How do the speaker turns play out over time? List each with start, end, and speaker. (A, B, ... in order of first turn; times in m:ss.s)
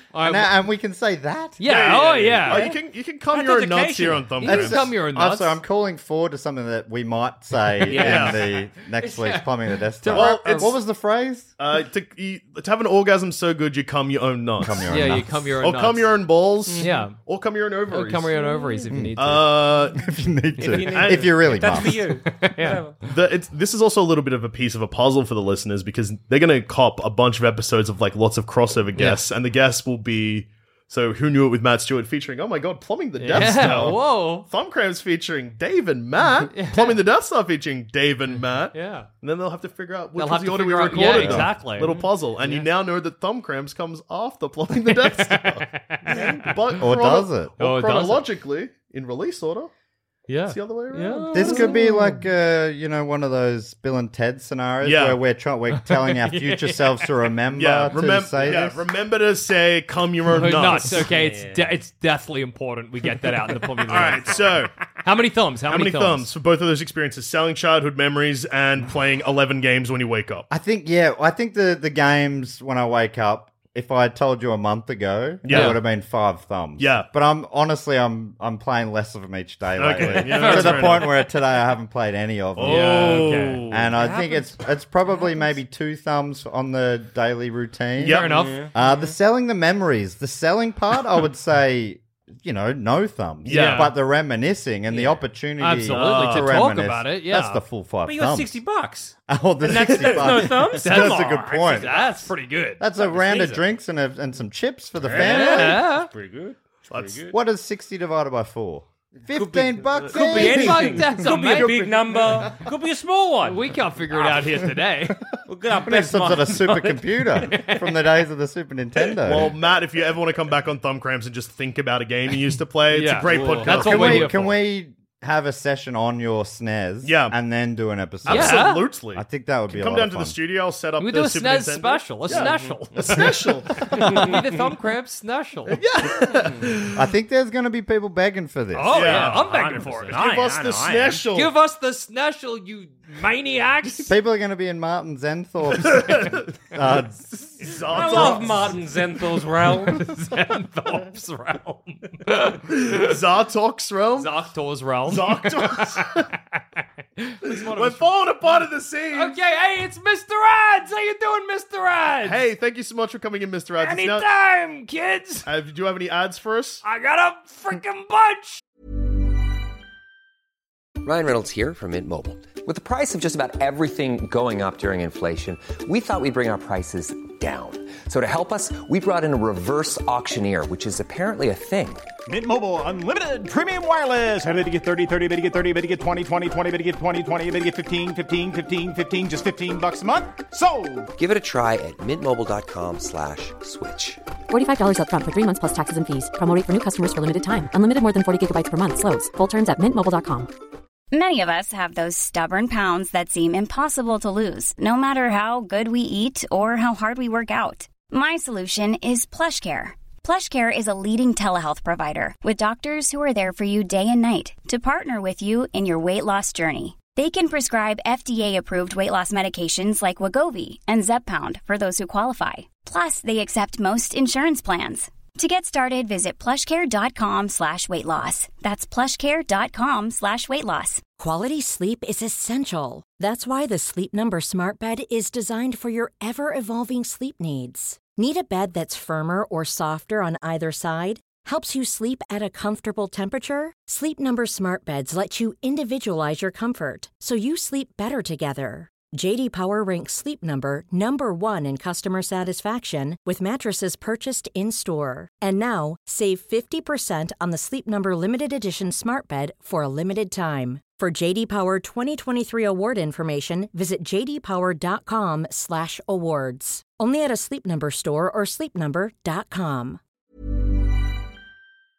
0:00.1-0:00.6 A
0:00.2-0:01.6 B
0:01.6-0:02.7 A
0:01.6-0:04.8 C
0:03.3-0:04.3 D
0:04.4-0:05.6 A
0:04.4-0:11.5 B
0:07.8-0:08.5 D
0:07.9-0:08.4 C
0:08.9-0:10.7 A
0:10.1-0:10.8 C
0:11.6-0:14.9 C
0:14.6-0:15.5 B
0:14.9-0:17.2 A
0:15.6-0:18.5 C
0:16.6-0:17.0 D
0:17.9-0:19.7 A
0:18.9-0:22.1 B
0:19.2-0:20.1 C
0:20.6-0:23.0 D
0:20.8-0:21.4 C
0:22.3-0:22.9 A
0:23.0-0:49.7 C
0:29.0-0:29.2 A
0:33.2-0:34.5 A
0:36.5-0:37.0 A
0:38.3-0:39.1 A
0:40.1-0:42.7 A
0:41.1-0:41.5 B
0:44.9-0:46.8 A
0:46.8-0:47.5 B
0:47.6-0:48.2 A
0:50.3-0:52.2 A
0:50.5-0:51.8 C
0:51.3-0:58.8 B
0:54.8-0:55.2 C
0:55.7-0:57.1 A
0:57.6-1:01.1 C
1:00.3-1:06.3 A
1:01.0-1:01.8 D
1:03.8-1:04.7 C
1:04.3-1:04.5 D
1:05.7-1:10.5 C
1:10.5-1:38.6 B
1:15.4-1:15.8 C
1:15.5-1:15.8 A
1:16.8-1:17.1 C
1:19.8-1:21.2 C
1:20.0-1:21.2 A
1:22.6-1:23.8 C
1:22.6-1:23.7 A
1:23.9-1:24.6 D
1:28.0-1:28.6 C
1:28.0-1:28.7 A
1:28.2-1:28.7 D
1:33.4-1:33.9 C
1:33.5-1:33.9 A
1:35.0-1:37.6 A
1:35.9-1:36.6 C
1:38.0-1:42.3 D
1:39.3-1:42.1 B
1:40.8-1:43.6 A
1:42.8-1:45.8 B
1:43.2-1:43.5 D
1:45.0-1:47.3 D
1:45.2-1:46.1 A
1:46.9-1:47.2 C
1:47.3-1:51.0 B
1:49.2-1:54.7 D
1:50.1-1:51.9 A
1:51.4-1:52.5 C
1:53.4-1:55.2 A
1:55.4-1:57.5 D
1:55.8-1:59.5 B
1:57.4-1:57.9 A
1:59.2-2:04.3 C
2:02.9-2:04.6 A
2:03.2-2:04.0 D
2:03.6-2:10.3 B
2:07.0-2:07.4 C
2:08.2-2:14.4 C
2:08.2-2:08.9 A
2:11.0-2:16.2 A
2:12.3-2:13.1 D
2:15.7-2:16.7 C
2:16.9-2:19.0 B
2:18.7-2:20.2 A
2:18.9-2:19.6 C
2:18.9-2:21.2 D
2:20.1-2:21.5 C
2:21.2-2:24.1 A
2:24.1-2:27.3 B
2:27.6-2:28.8 C
2:27.9-2:30.0 D
2:29.8-2:33.0 A
2:32.8-2:34.5 C
2:34.2-2:36.6 A
2:35.0-2:36.3 C
2:37.2-2:38.2 A
2:37.4-2:39.4 C
2:39.1-2:42.4 A
2:42.2-2:44.3 C
2:43.8-2:45.5 A
2:45.4-2:46.8 C
2:46.8-2:48.6 A
2:51.0-3:02.0 E
3:02.3-3:11.1 F
3:11.2-3:14.2 E
3:14.5-3:20.5 G
3:21.1-3:51.0 H
3:51.2-4:30.0 I